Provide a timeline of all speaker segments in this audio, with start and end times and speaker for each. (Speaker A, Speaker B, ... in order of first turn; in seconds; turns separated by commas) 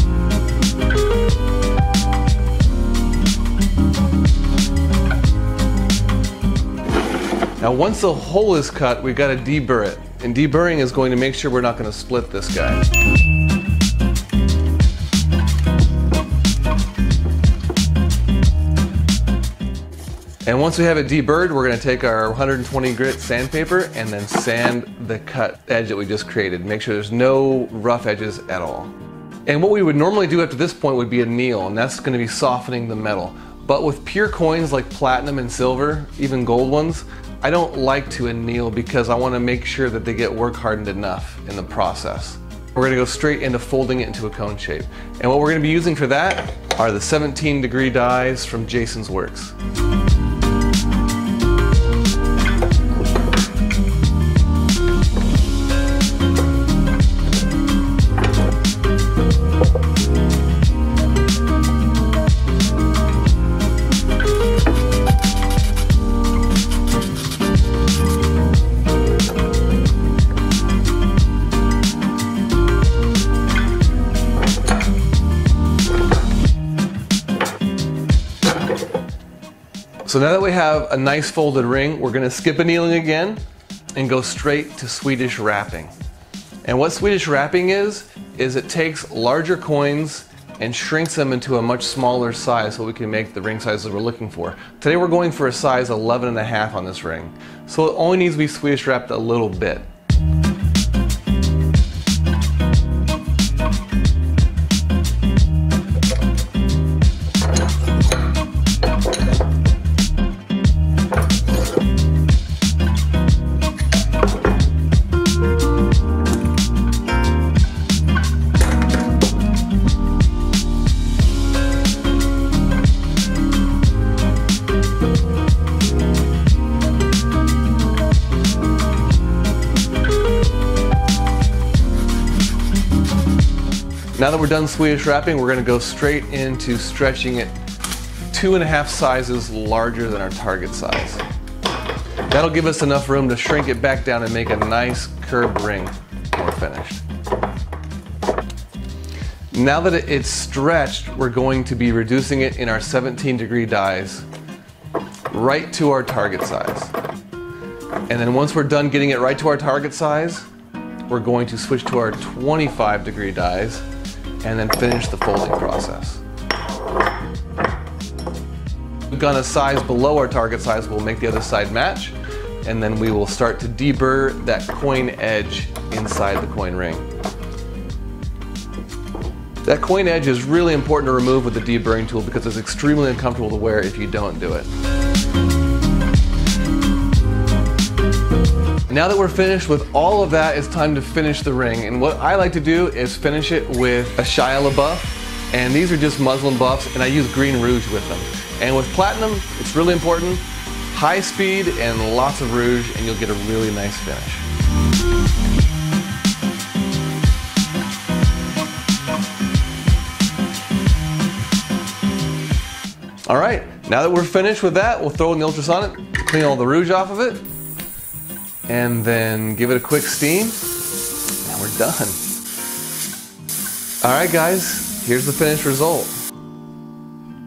Speaker A: 7.6-12.8, Speaker A: 20.5-28.9, Speaker A: 29.5-49.5, Speaker A: 80.0-83.4, Speaker A: 84.0-85.9, Speaker A: 86.6-99.9, Speaker A: 134.2-137.5, Speaker A: 138.3-141.2, Speaker A: 142.3-147.0, Speaker A: 149.5-154.3, Speaker A: 155.3-156.9, Speaker A: 158.1-160.5, Speaker A: 161.1-163.9, Speaker A: 164.4-166.2, Speaker A: 169.1-177.1, Speaker A: 179.7-184.7, Speaker A: 188.9-204.5, Speaker A: 213.3-217.4, Speaker A: 218.7-220.6, Speaker A: 221.4-222.2, Speaker A: 224.0-226.2